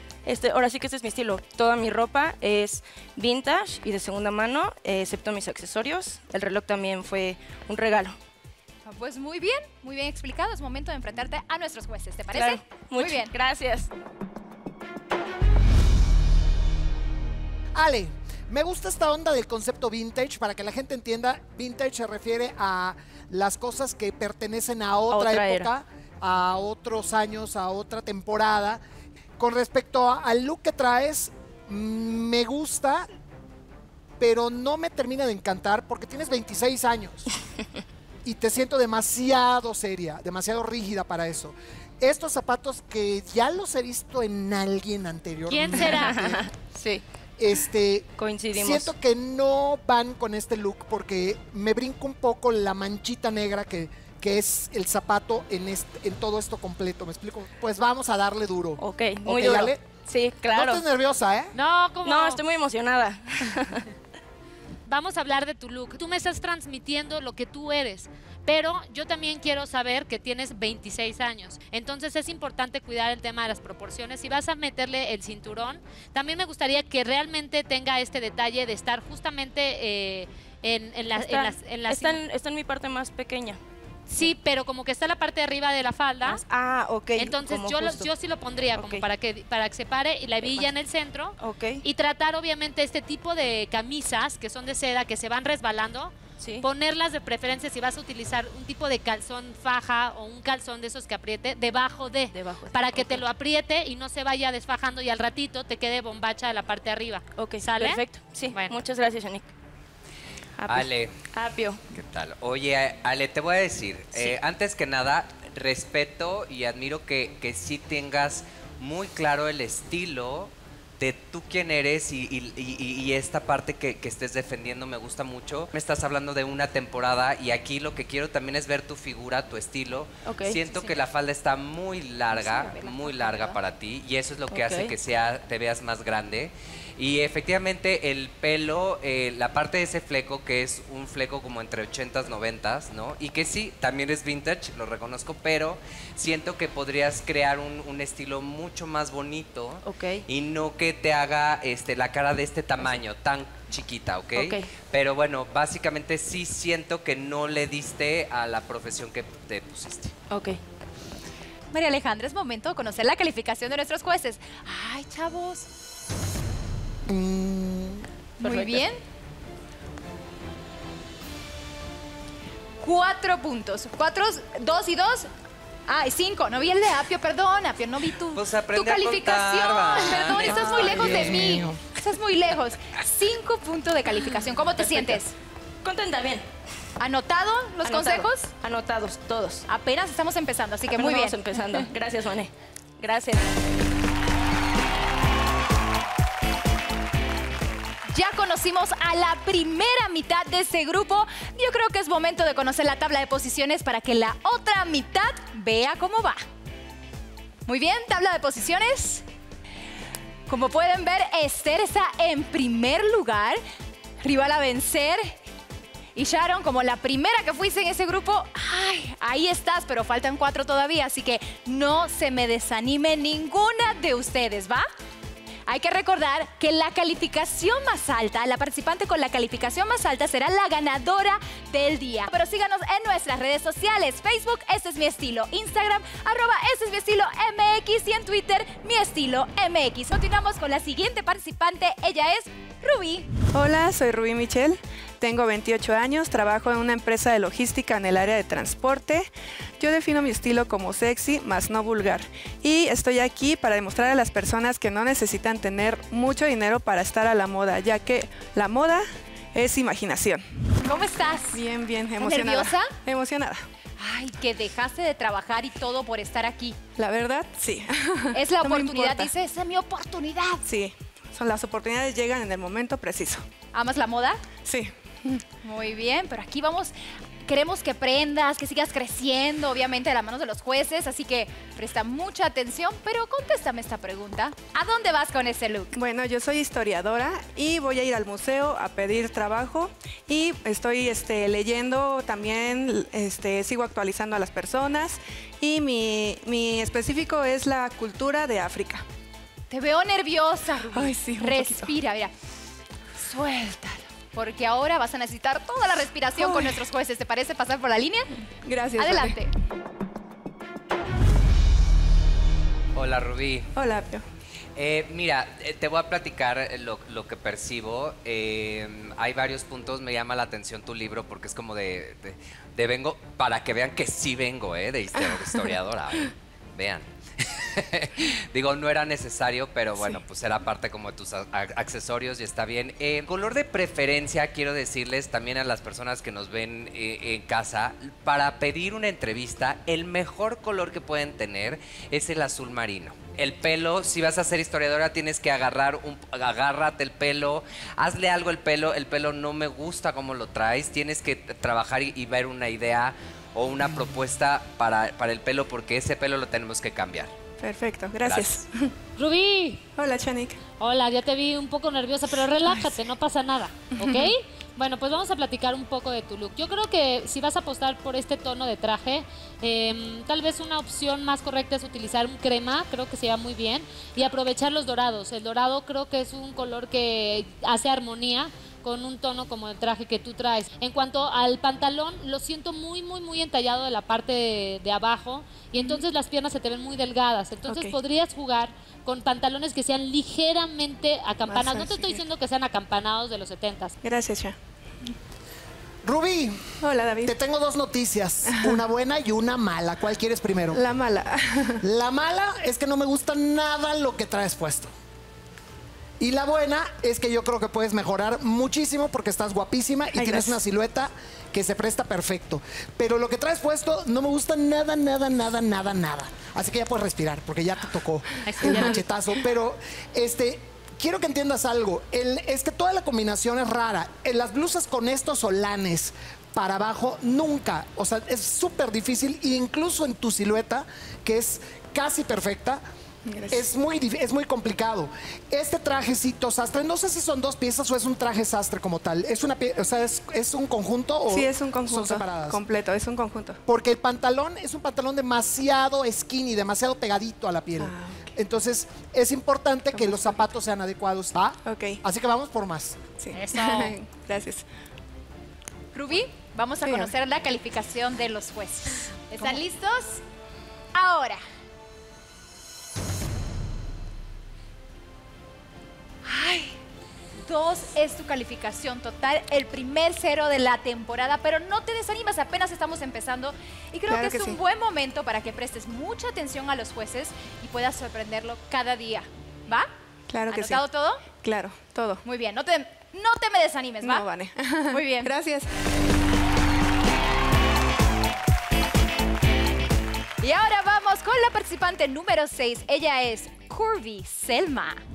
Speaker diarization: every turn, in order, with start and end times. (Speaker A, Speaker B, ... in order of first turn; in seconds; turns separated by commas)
Speaker A: 0.2-8.2, Speaker B: 8.8-13.3, Speaker A: 12.3-13.9, Speaker C: 17.7-28.8, Speaker A: 25.1-25.7, Speaker C: 29.4-33.1, Speaker C: 34.2-37.3, Speaker C: 38.2-46.4, Speaker D: 45.5-46.4, Speaker A: 45.8-47.0, Speaker C: 47.4-59.8, Speaker A: 48.2-48.9, Speaker A: 58.8-60.8, Speaker C: 60.5-61.5, Speaker D: 61.5-62.4, Speaker A: 62.0-63.8, Speaker D: 64.9-82.2, Speaker A: 81.1-83.6, Speaker D: 84.1-86.4, Speaker A: 86.2-88.1, Speaker D: 87.2-108.8, Speaker A: 88.7-89.1, Speaker A: 90.4-90.7, Speaker A: 91.4-91.8, Speaker A: 96.4-96.7, Speaker A: 102.3-103.2, Speaker A: 107.4-109.5, Speaker A: 110.6-111.8, Speaker E: 110.7-111.1, Speaker E: 111.9-160.1, Speaker A: 130.2-130.6, Speaker B: 132.3-133.6, Speaker A: 134.5-134.9, Speaker A: 149.8-150.2, Speaker A: 154.3-154.7, Speaker A: 160.3-160.6, Speaker B: 161.7-165.7, Speaker C: 167.1-168.1, Speaker B: 168.4-169.0, Speaker A: 168.4-168.8, Speaker B: 172.8-175.3, Speaker B: 175.9-185.3, Speaker E: 178.3-181.6, Speaker C: 180.8-181.8, Speaker A: 184.8-185.2, Speaker A: 185.8-186.4, Speaker B: 187.0-188.5, Speaker A: 187.8-189.6, Speaker B: 189.7-191.4, Speaker A: 190.9-193.5, Speaker B: 198.1-206.4, Speaker B: 207.7-209.2, Speaker B: 210.5-213.6, Speaker B: 214.2-215.3, Speaker B: 216.1-224.9, Speaker B: 225.7-243.3, Speaker F: 243.5-260.7, Speaker B: 260.8-261.6, Speaker F: 261.5-263.6, Speaker B: 262.2-262.9, Speaker B: 264.0-266.8, Speaker F: 267.0-269.3, Speaker B: 268.3-270.6, Speaker F: 270.6-273.4, Speaker B: 273.7-274.4, Speaker F: 274.6-274.9, Speaker B: 275.6-276.9, Speaker B: 277.4-285.9, Speaker F: 285.9-299.0, Speaker B: 299.7-302.3, Speaker F: 300.9-301.9, Speaker B: 303.2-308.3, Speaker F: 306.4-306.8, Speaker F: 308.6-309.4, Speaker B: 309.0-309.5, Speaker E: 312.9-313.7, Speaker F: 313.7-314.2, Speaker E: 314.8-357.3, Speaker F: 357.6-358.9, Speaker E: 358.2-358.5, Speaker D: 359.2-359.9, Speaker F: 359.9-360.6, Speaker D: 360.8-393.9, Speaker F: 362.6-362.9, Speaker F: 364.0-364.3, Speaker F: 387.7-388.0, Speaker F: 391.5-392.2, Speaker F: 394.0-394.6, Speaker C: 396.0-400.8, Speaker F: 396.8-397.3, Speaker F: 398.5-398.8, Speaker F: 400.7-401.8, Speaker C: 401.8-404.9, Speaker C: 406.2-432.8, Speaker F: 410.1-410.6, Speaker D: 418.4-419.0, Speaker F: 433.2-433.6, Speaker C: 433.5-442.6, Speaker F: 441.3-443.6, Speaker C: 443.6-453.0, Speaker F: 447.8-448.3, Speaker F: 449.9-450.3, Speaker F: 451.6-452.0, Speaker F: 453.2-454.6, Speaker B: 455.9-460.2, Speaker F: 456.8-457.1, Speaker B: 460.9-461.4, Speaker B: 466.2-466.7, Speaker B: 467.4-479.9, Speaker F: 474.1-474.6, Speaker F: 480.3-482.2, Speaker B: 480.5-481.2, Speaker B: 482.2-484.3, Speaker F: 484.0-485.7, Speaker B: 484.9-485.3, Speaker B: 490.4-495.0